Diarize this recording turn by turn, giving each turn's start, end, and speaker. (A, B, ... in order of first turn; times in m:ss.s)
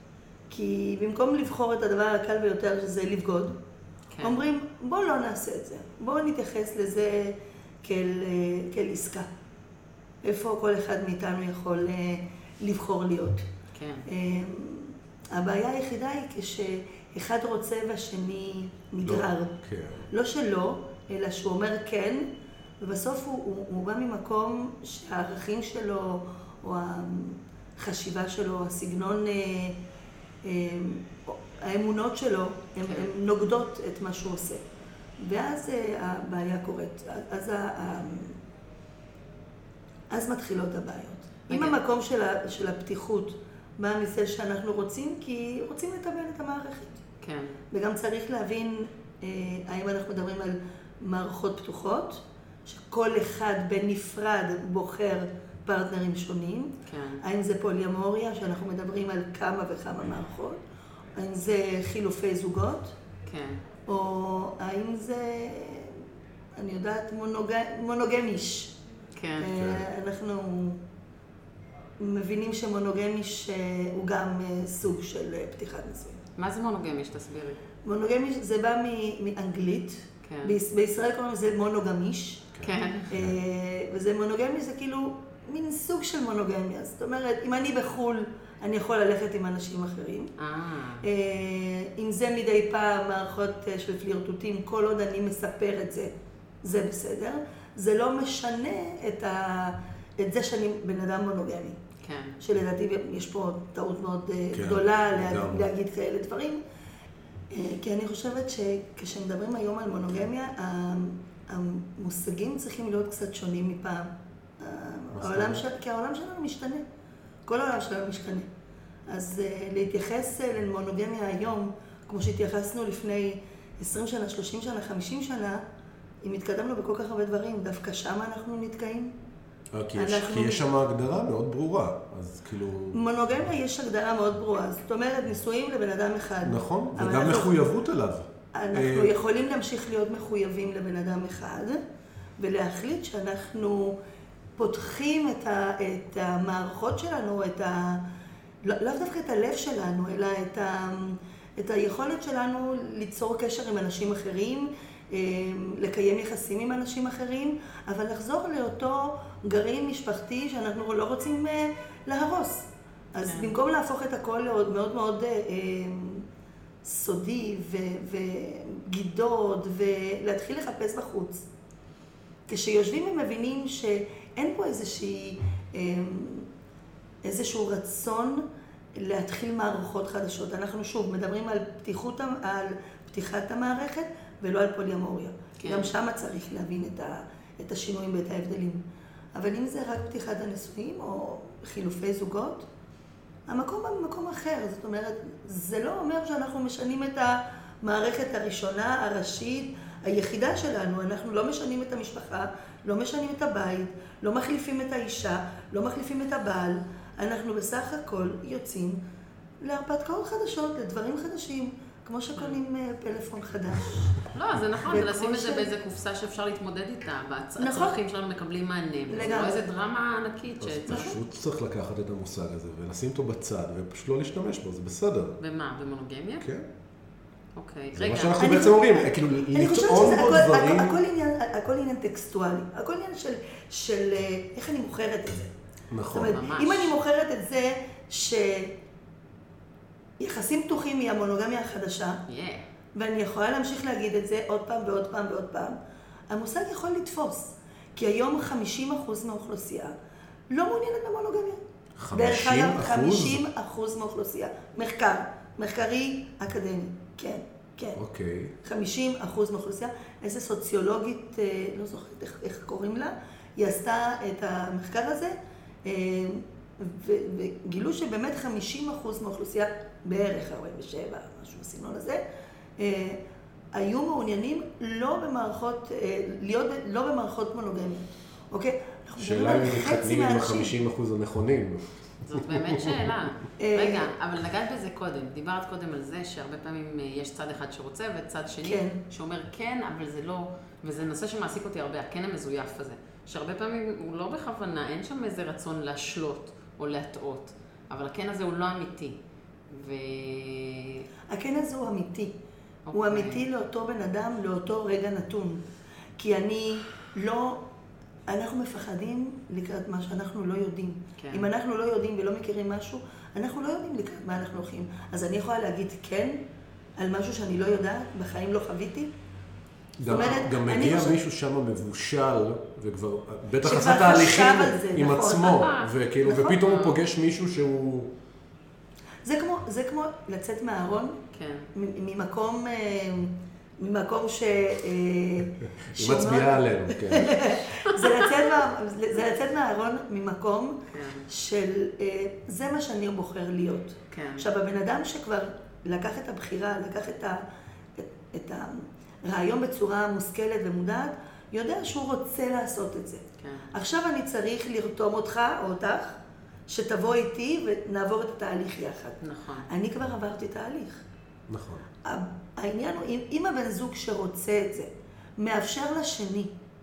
0:00.5-0:03.6 A
0:04.1-0:04.4 B
0:04.2-0:09.3 A
0:10.2-0:13.5 A
0:13.8-0:14.1 B
0:14.1-0:19.6 A
0:19.0-0:20.1 C
0:20.1-0:22.3 A
0:22.8-0:29.8 A
0:30.4-0:34.6 A
0:32.8-0:33.1 B
0:35.2-0:38.4 A
0:40.1-0:47.0 A
0:41.5-0:41.8 B
0:47.2-0:47.6 B
0:47.7-1:00.6 A
0:56.9-0:57.2 B
1:01.2-1:03.0 A
1:03.3-1:03.6 B
1:03.9-1:06.0 A
1:06.6-1:08.8 A
1:09.2-1:09.6 B
1:09.4-1:10.8 A
1:09.6-1:09.8 C
1:12.0-1:16.2 A
1:16.4-1:17.6 B
1:17.8-1:22.5 A
1:20.2-1:20.6 B
1:22.5-1:23.4 C
1:22.6-1:23.1 B
1:23.1-1:30.3 A
1:30.4-1:31.1 B
1:31.0-1:36.1 A
1:36.6-1:41.8 A
1:42.0-1:42.4 B
1:42.4-1:46.6 A
1:44.5-1:45.7 C
1:47.5-1:56.8 A
1:55.2-1:55.6 C
1:57.5-1:58.5 A
1:59.1-2:05.6 A
2:06.2-2:09.1 A
2:09.7-2:13.0 C
2:10.0-2:10.7 A
2:12.9-2:17.5 A
2:16.4-2:19.1 C
2:18.5-2:21.8 A
2:22.4-2:24.0 A
2:24.6-2:28.0 A
2:28.6-2:46.3 A
2:43.2-2:43.5 B
2:46.8-2:51.5 A
2:52.5-2:56.5 A
2:57.2-3:08.8 A
3:05.6-3:05.9 B
3:09.4-3:12.7 A
3:13.5-3:29.0 A
3:29.6-3:34.1 A
3:34.3-3:41.2 B
3:34.9-3:35.7 A
3:37.6-3:38.0 A
3:39.1-3:39.6 A
3:40.6-3:45.4 C
3:45.4-3:46.5 B
3:46.4-3:46.7 C
3:47.6-3:48.5 B
3:48.0-3:51.0 C
3:48.4-3:55.5 A
3:55.9-3:56.4 C
3:56.1-3:58.8 A
3:56.2-3:56.9 B
4:00.2-4:02.2 A
4:02.3-4:02.7 B
4:03.0-4:05.8 A
4:06.3-4:10.0 A
4:10.5-4:11.6 A
4:12.0-4:13.4 C
4:12.1-4:18.0 A
4:18.0-4:18.5 C
4:18.6-4:32.2 A
4:32.8-4:33.2 A
4:33.7-4:40.7 A
4:39.2-4:43.0 C
4:42.3-4:59.2 B
4:43.6-4:44.1 A
4:48.6-4:49.0 A
4:59.7-5:01.1 B
5:01.3-5:02.4 A
5:02.9-5:03.4 B
5:02.9-5:05.6 A
5:06.2-5:07.7 A
5:08.3-5:16.4 A
5:11.2-5:11.5 B
5:17.0-5:19.1 A
5:20.0-5:28.1 C
5:20.1-5:21.2 A
5:20.1-5:20.4 B
5:23.6-5:25.7 A
5:25.4-5:25.9 B
5:26.2-5:26.6 A
5:26.5-5:27.0 B
5:29.2-5:31.2 A
5:31.3-5:31.7 B
5:31.7-5:47.4 A
5:35.9-5:37.5 C
5:38.0-5:38.4 B
5:40.9-5:41.3 B
5:44.1-5:44.5 B
5:48.0-6:01.0 A
5:53.4-5:53.7 B
5:59.2-5:59.7 B
6:01.5-6:01.9 C
6:02.0-6:06.5 A